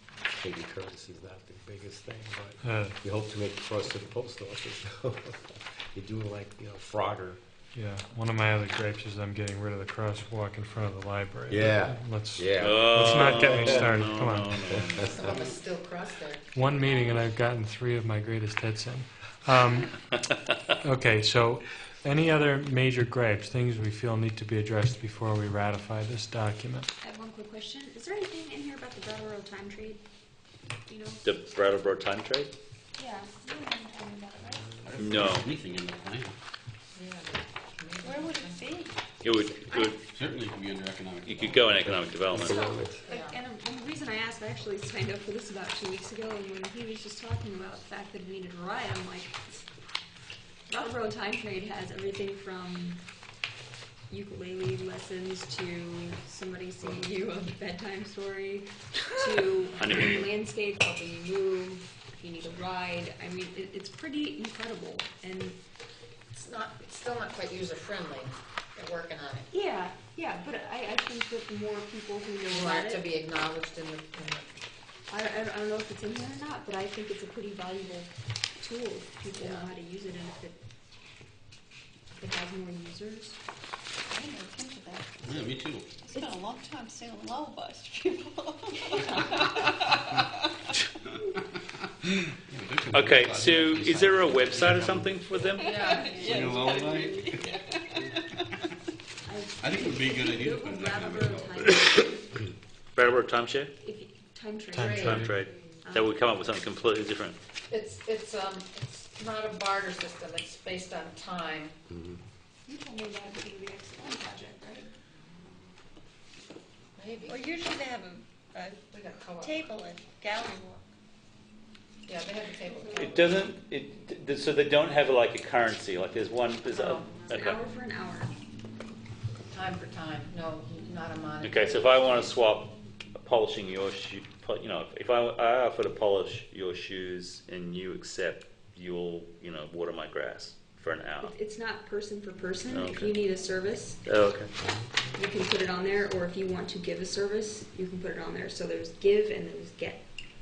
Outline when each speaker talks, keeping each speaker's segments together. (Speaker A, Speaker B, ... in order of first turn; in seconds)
Speaker A: 0.3-7.4, 11.5-14.1, 14.7-15.2, 42.3-43.0
Speaker B: 2.6-3.0, 7.8-14.9, 16.5-20.0, 20.8-26.9, 104.7-105.4
Speaker C: 12.6-15.3, 31.2-32.5, 35.0-35.5, 39.2-40.0, 41.2-42.6, 59.8-60.2, 92.9-95.8, 103.0-103.7, 105.1-107.4, 122.9-127.6, 131.4-141.3, 142.7-143.2, 144.1-144.5
Speaker D: 15.0-17.0, 37.0-38.8, 43.1-43.4, 66.3-69.5, 72.4-74.5, 79.3-79.7, 104.7-105.4, 107.7-111.8, 117.0-117.4, 118.9-119.8, 122.1-123.4, 126.7-127.1, 129.5-131.7
Speaker E: 27.0-30.0, 30.9-31.2, 33.0-34.9, 42.3-49.6, 50.7-53.0, 54.1-65.6, 69.5-73.1, 75.1-80.6, 82.2-83.4, 86.1-86.4, 88.9-89.4, 95.5-96.5, 99.2-102.4, 103.8-105.2, 105.8-106.2, 112.7-114.9, 127.3-128.3, 141.2-144.0, 145.2-150.0
Speaker F: 34.8-36.3, 40.1-42.1, 85.2-86.1, 91.1-95.1, 96.1-98.0, 99.6-101.7
Speaker G: 38.0-39.9, 84.1-90.4, 95.5-98.5, 117.3-118.8, 119.4-120.8